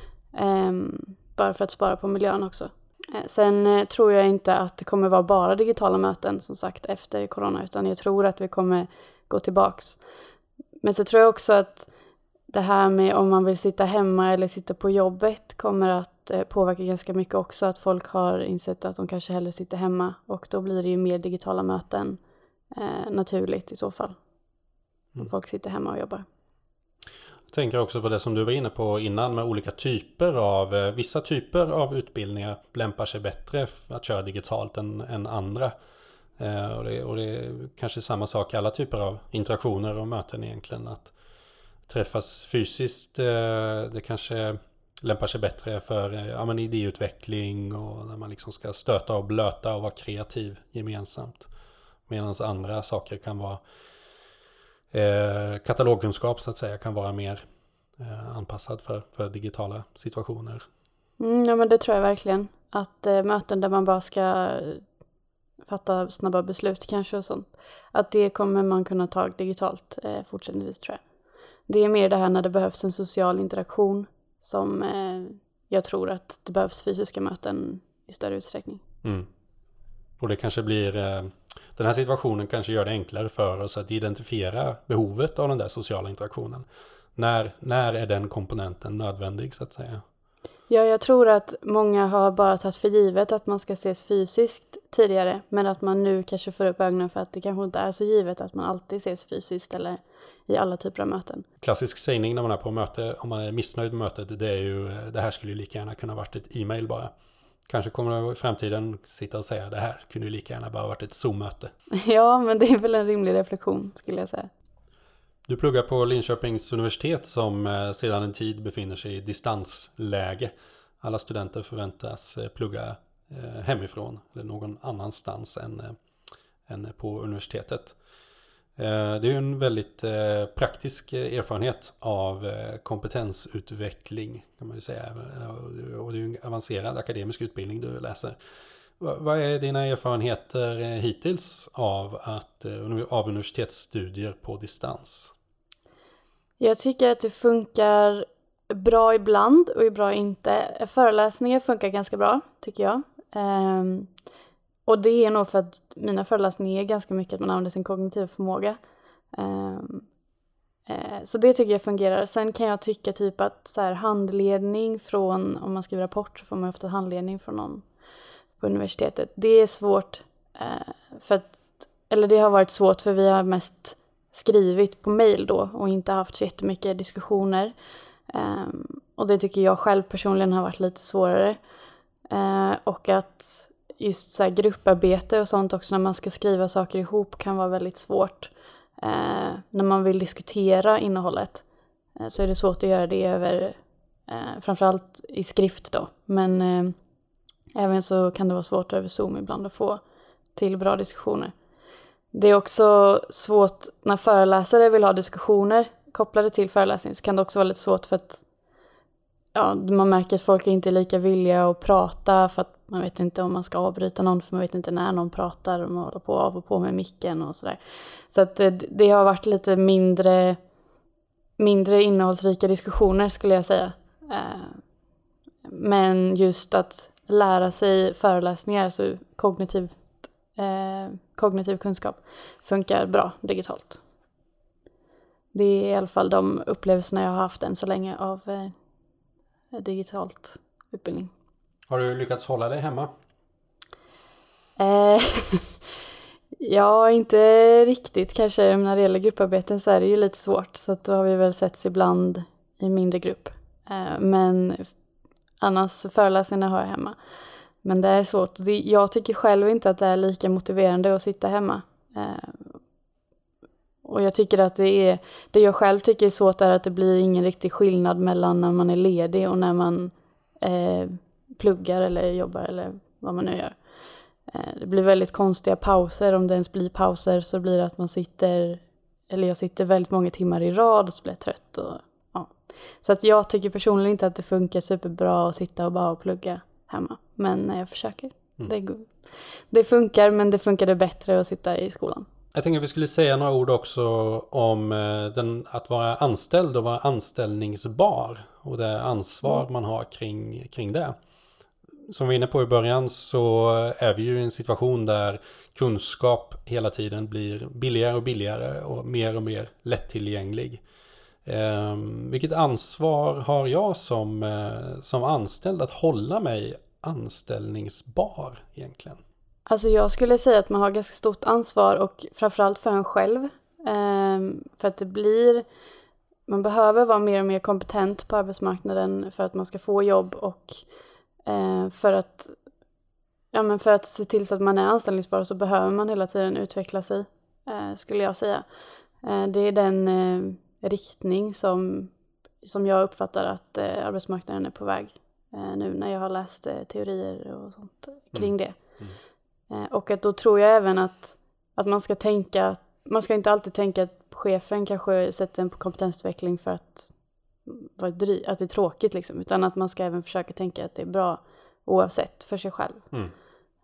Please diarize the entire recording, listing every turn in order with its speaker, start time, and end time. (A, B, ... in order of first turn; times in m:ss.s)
0:00.3-0:10.0 A
0:10.8-0:11.9 A
0:12.5-0:22.2 A
0:22.7-0:24.2 A
0:25.2-0:26.2 A
0:27.5-0:35.7 B
0:36.4-0:41.1 B
0:41.9-0:51.5 B
0:52.1-0:53.6 B
0:54.9-0:57.4 B
0:58.0-1:00.6 B
1:01.2-1:04.8 A
1:05.7-1:11.0 A
1:11.7-1:18.8 A
1:19.0-1:19.3 B
1:20.2-1:30.0 B
1:30.7-1:41.5 A
1:41.6-1:47.1 B
1:47.7-1:51.7 B
1:51.9-1:54.5 A
1:55.5-2:06.0 B
2:06.7-2:08.0 B
2:08.8-2:18.4 B
2:19.0-2:25.3 B
2:26.6-2:34.1 A
2:34.9-2:38.8 A
2:39.3-2:40.1 A
2:40.9-2:47.8 A
2:48.6-2:57.7 A
2:58.3-3:01.6 A
3:02.3-3:11.6 A
3:12.2-3:17.0 A
3:17.8-3:20.0 A
3:20.6-3:21.5 A
3:22.3-3:28.4 A
3:29.6-3:40.6 A
3:41.6-3:44.8 A
3:45.6-3:50.0 A
3:50.5-3:54.0 A
3:55.5-3:58.8 A
3:59.7-4:01.3 A
4:01.9-4:03.1 B
4:04.8-4:05.8 A
4:06.6-4:14.9 A
4:15.6-4:17.2 A
4:17.8-4:22.8 A
4:24.0-4:33.8 A
4:34.5-4:52.3 A
4:52.5-5:01.2 B
5:02.1-5:10.8 B
5:11.4-5:19.2 B
5:19.7-5:25.6 A
5:26.5-5:30.8 A
5:31.4-5:32.6 A
5:33.5-5:38.7 A
5:39.2-5:48.8 A
5:48.3-5:49.2 B
5:49.7-5:57.1 A
5:57.7-6:03.1 A